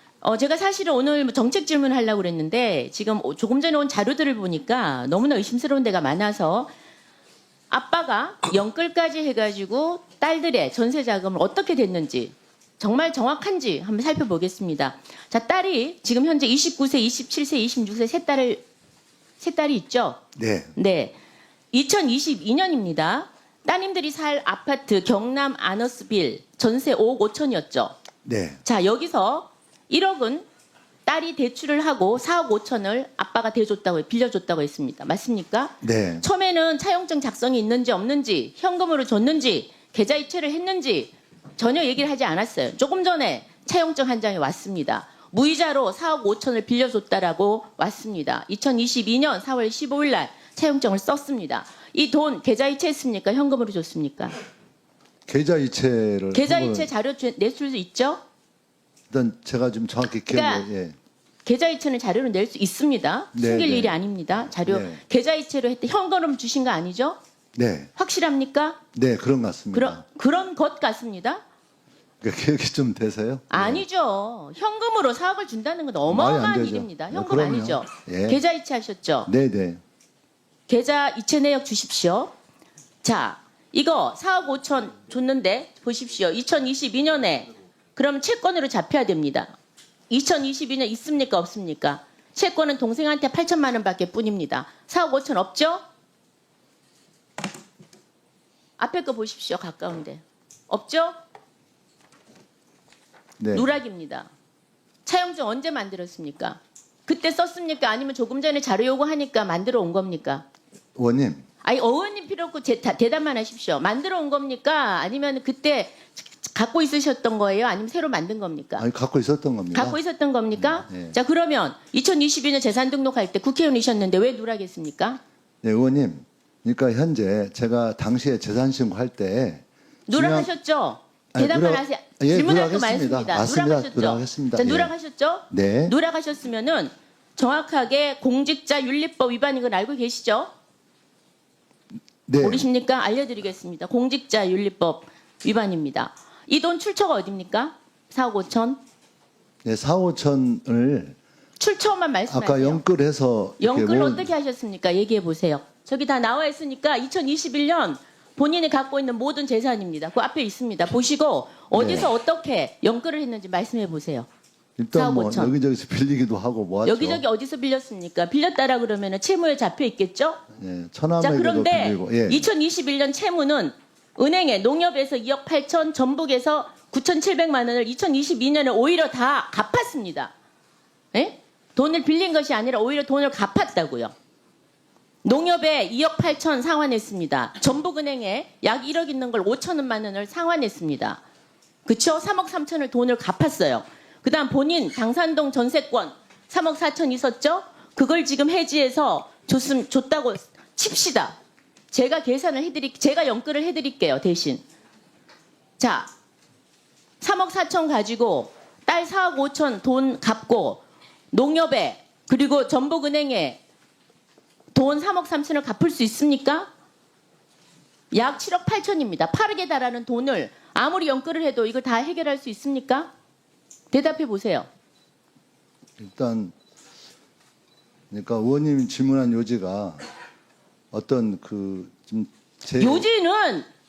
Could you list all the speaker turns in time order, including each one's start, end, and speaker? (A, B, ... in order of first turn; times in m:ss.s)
0:00.2-0:06.7 A
0:07.7-0:18.6 A
0:19.4-0:20.2 A
0:20.4-0:20.7 B
0:20.8-0:21.2 A
0:21.7-0:28.0 A
0:28.2-0:28.6 B
0:28.6-0:30.5 A
0:31.1-0:54.4 A
0:35.8-0:36.2 B
0:55.3-0:56.9 B
0:56.3-0:58.2 A
0:59.1-1:01.0 B
1:00.3-1:00.7 A
1:01.4-1:07.2 A
1:03.3-1:04.0 B
1:04.6-1:05.0 B
1:07.6-1:07.9 B
1:08.0-1:08.8 A
1:08.9-1:10.0 B
1:09.7-1:11.4 A
1:12.2-1:13.8 B
1:13.5-1:19.3 A
1:16.1-1:18.4 B
1:19.3-1:19.8 B
1:20.7-1:22.3 A
1:23.0-1:29.5 A
1:30.1-1:35.8 A
1:38.8-1:41.2 A
1:43.4-1:43.7 B
1:43.5-1:44.3 A
1:45.0-1:50.4 A
1:51.0-1:51.5 B
1:51.6-1:58.8 A
1:58.8-2:00.0 B
1:59.7-2:05.2 A
2:00.5-2:01.2 B
2:05.6-2:10.5 B
2:10.1-2:20.5 A
2:11.3-2:14.9 B
2:15.5-2:16.0 B
2:22.3-2:22.7 B
2:22.4-2:28.8 A
2:29.6-2:31.2 B
2:31.6-2:32.8 A
2:32.3-2:34.3 B
2:33.6-2:44.3 A
2:41.7-2:42.1 B
2:44.8-2:47.2 B
2:44.9-2:45.5 A
2:46.8-2:50.4 A
2:50.6-2:52.4 B
2:51.2-3:00.3 A
3:01.1-3:04.1 A
3:05.2-3:11.2 A
3:11.9-3:21.4 A
3:21.9-3:24.6 A
3:25.8-3:26.1 A
3:27.2-3:33.6 A
3:34.7-3:36.7 A
3:38.1-3:43.1 A
3:43.9-3:44.7 A
3:46.0-3:46.6 B
3:48.1-3:50.0 B
3:50.9-3:53.1 B
3:52.8-3:53.7 A